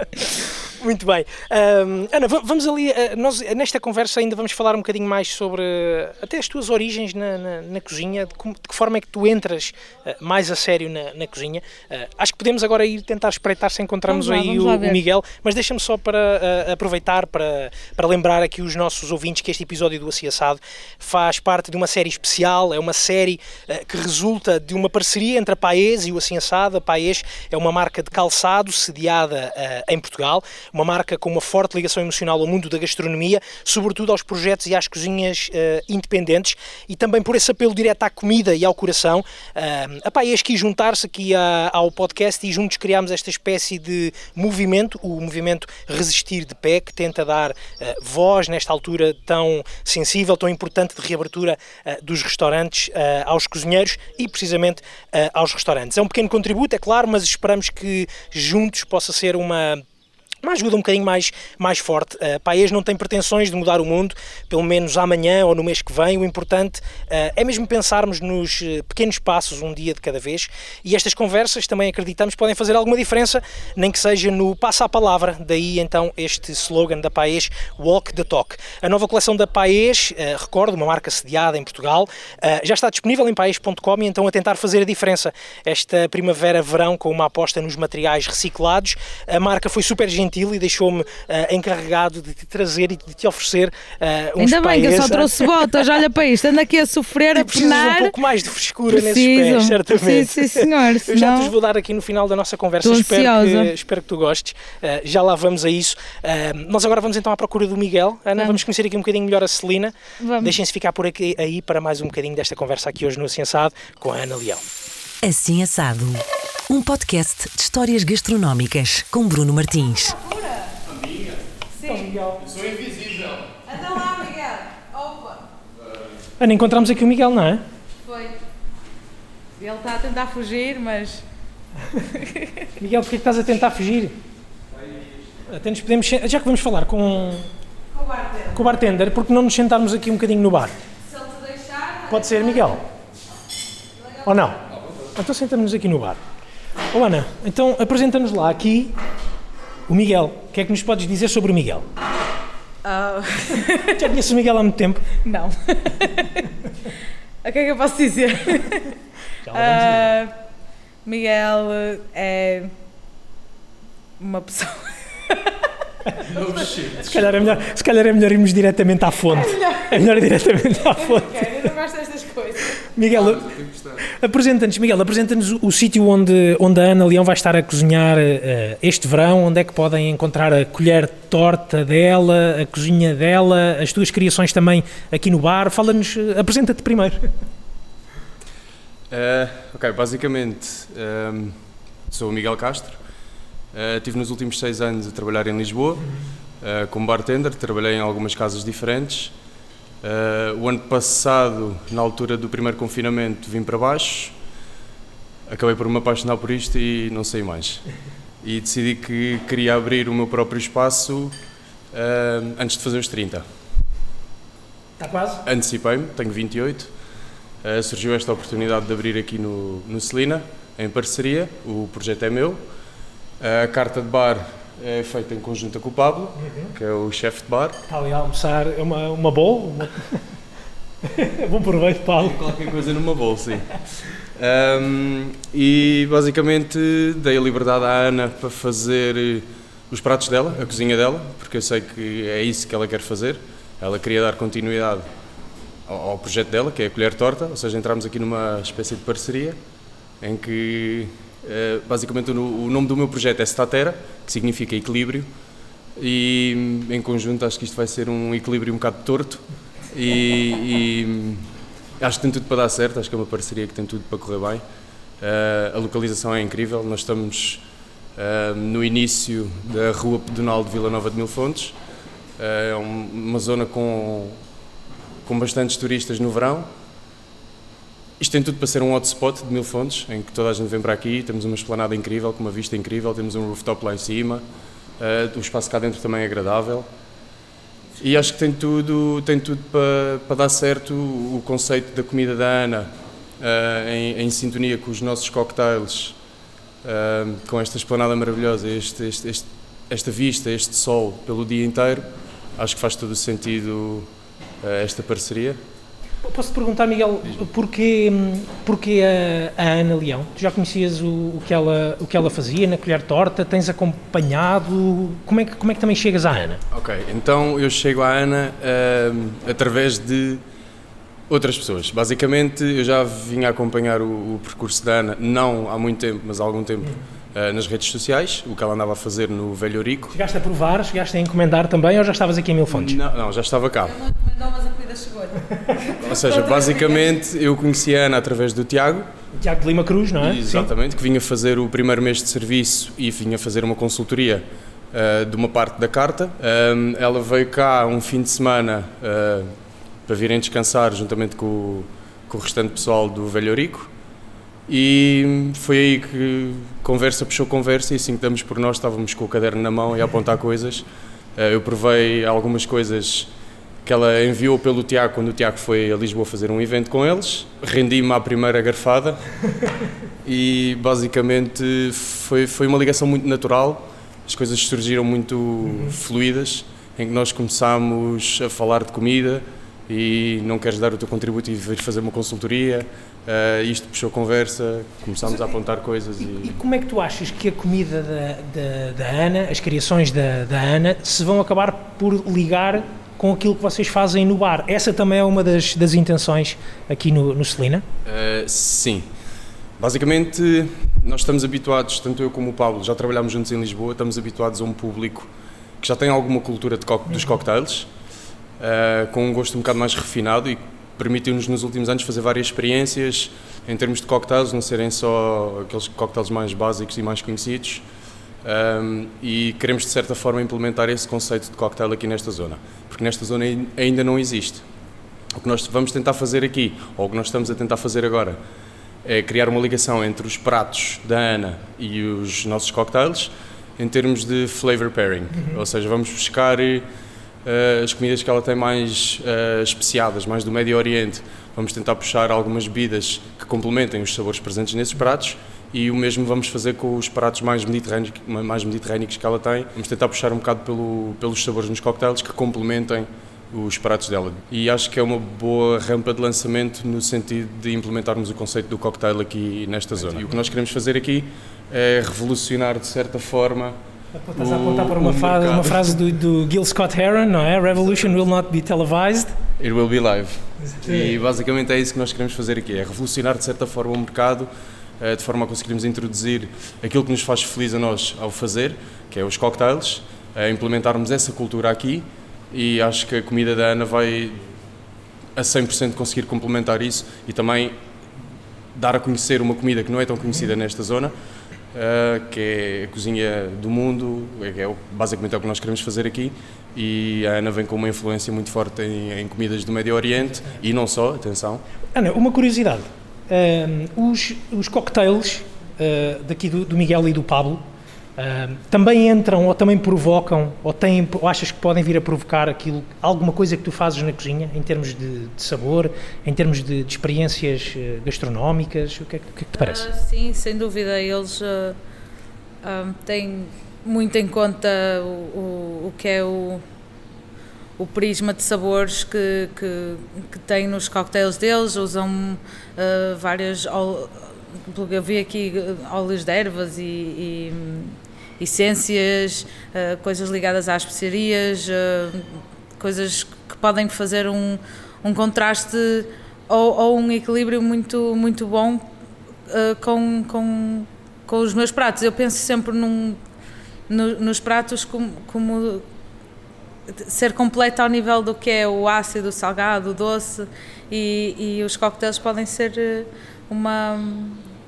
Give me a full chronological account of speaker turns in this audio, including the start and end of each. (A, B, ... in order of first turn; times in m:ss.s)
0:00.2-0:59.8 A
0:14.1-0:15.0 B
1:00.4-1:35.8 A
1:34.4-1:38.2 B
1:37.3-1:54.6 A
1:38.9-1:41.5 B
1:42.8-1:43.7 B
1:50.2-1:50.6 B
1:55.2-2:00.2 C
1:59.9-2:00.8 B
2:00.9-2:01.4 D
2:01.7-2:02.1 B
2:01.8-2:02.5 A
2:02.4-2:03.5 D
2:03.7-2:05.4 B
2:06.4-2:07.6 A
2:08.0-2:08.4 B
2:09.6-2:11.2 B
2:12.1-2:12.7 B
2:12.8-2:14.2 A
2:15.5-2:17.5 A
2:17.9-2:18.6 B
2:18.5-2:20.8 A
2:21.1-2:22.5 B
2:22.1-2:22.8 A
2:24.2-2:24.6 A
2:25.2-2:26.2 A
2:26.9-2:29.0 A
2:29.9-2:31.9 A
2:32.8-2:34.1 B
2:33.9-2:35.1 A
2:35.2-2:36.5 B
2:37.4-2:38.9 B
2:39.4-2:40.2 A
2:39.5-2:40.3 B
2:41.0-2:42.7 B
2:44.2-2:45.7 B
2:46.2-2:47.6 D
2:46.3-2:46.8 B
2:47.0-2:51.7 A
2:49.3-2:50.2 B
2:50.8-2:52.8 B
2:52.8-2:53.5 A
2:53.1-2:54.1 D
2:54.0-3:07.3 A
3:09.1-3:11.6 D
3:12.1-3:13.0 D
3:13.7-3:16.1 D
3:16.6-3:19.3 D
3:20.0-3:24.3 D
3:25.5-3:27.8 D
3:28.4-3:31.3 D
3:31.9-3:33.5 D
3:35.0-3:35.4 A
3:35.4-3:36.9 D
3:37.6-3:42.6 D
3:43.4-3:47.8 D
3:46.4-3:46.7 A
3:47.9-3:50.2 A
3:51.0-3:52.4 A
3:52.2-3:53.8 D
3:54.4-4:05.1 D
4:05.9-4:09.6 D
4:10.2-4:15.3 D
4:16.0-4:21.5 D
4:22.0-4:24.6 D
4:25.2-4:27.6 D
4:28.2-4:31.8 D
4:32.4-4:34.4 D
4:35.2-4:36.7 D
4:38.2-4:44.4 D
4:45.0-4:46.9 D
4:48.0-4:56.2 D
4:56.8-5:04.1 D
5:04.6-5:05.6 D
5:06.2-5:16.6 A
5:16.7-5:20.4 D
5:21.3-5:30.2 D
5:30.1-5:33.0 A
5:32.7-5:34.0 D
5:33.8-5:37.0 B
5:36.0-5:39.1 D
5:39.3-5:40.7 A
5:40.2-5:49.5 D
5:50.1-5:53.9 D
5:54.7-6:00.8 D
6:01.4-6:03.3 D
6:03.8-6:09.2 D
6:10.2-6:26.6 D
6:26.4-6:37.8 A
6:38.0-6:39.1 D
6:39.8-6:45.3 D
6:45.8-6:47.9 D
6:48.6-6:57.8 D
6:58.4-7:04.6 D
7:05.3-7:08.4 D
7:09.0-7:16.8 D
7:17.4-7:43.8 D
7:44.1-7:49.4 A
7:44.4-7:46.0 D
7:49.6-8:04.5 D
7:50.8-7:51.2 A
8:05.4-8:07.8 D
8:08.8-8:11.1 D
8:11.7-8:21.6 D
8:21.9-8:27.6 A
8:28.2-8:39.9 A
8:39.6-8:41.8 B
8:42.6-8:46.6 B
8:47.8-9:08.9 B
9:09.5-9:13.2 B
9:13.9-9:15.8 B
9:16.9-9:24.5 B